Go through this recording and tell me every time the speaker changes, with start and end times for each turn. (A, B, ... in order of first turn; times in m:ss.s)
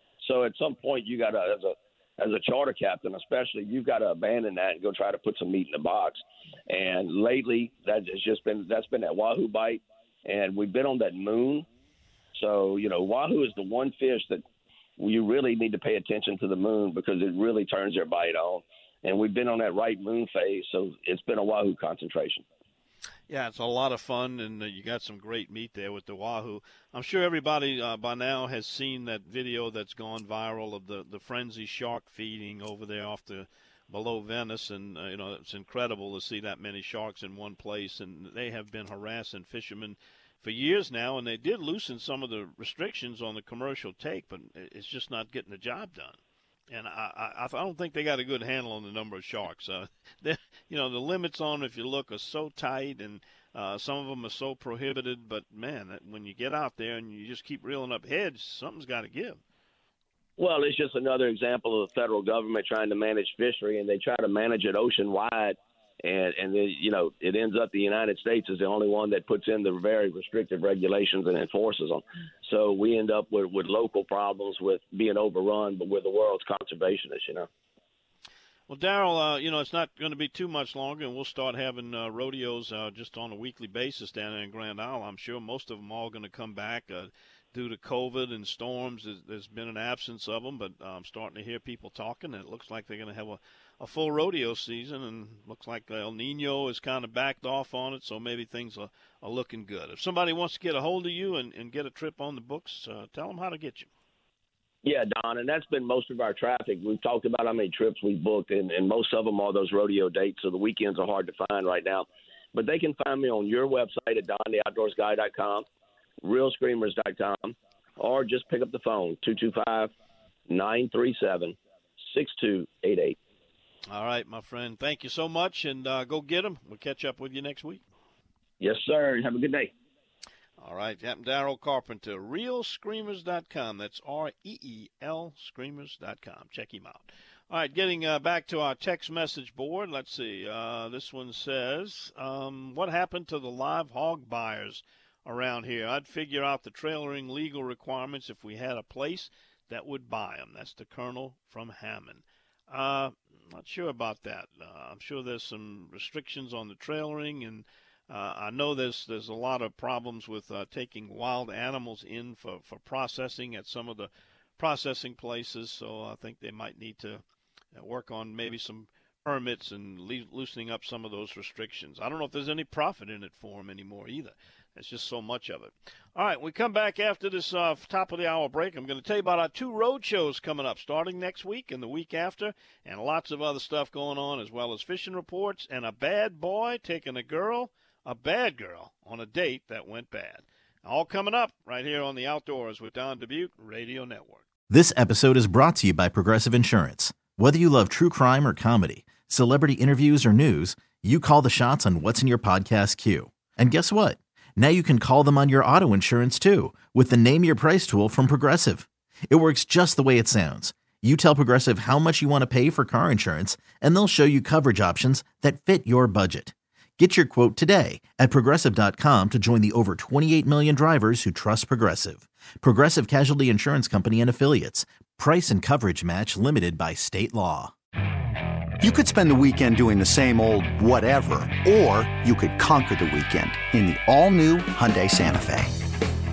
0:00.2-0:11.6 A
0:12.3-0:14.4 A
0:15.0-0:22.4 A
0:23.3-0:46.2 B
0:46.7-0:59.4 B
1:00.4-1:17.5 A
1:18.7-1:43.9 B
1:44.8-1:55.6 A
1:56.2-1:59.9 A
2:00.5-2:03.2 A
2:03.9-2:07.8 B
2:08.6-2:09.7 A
2:10.6-2:47.2 B
2:47.7-3:14.4 B
3:14.7-3:47.7 C
3:48.8-3:55.8 D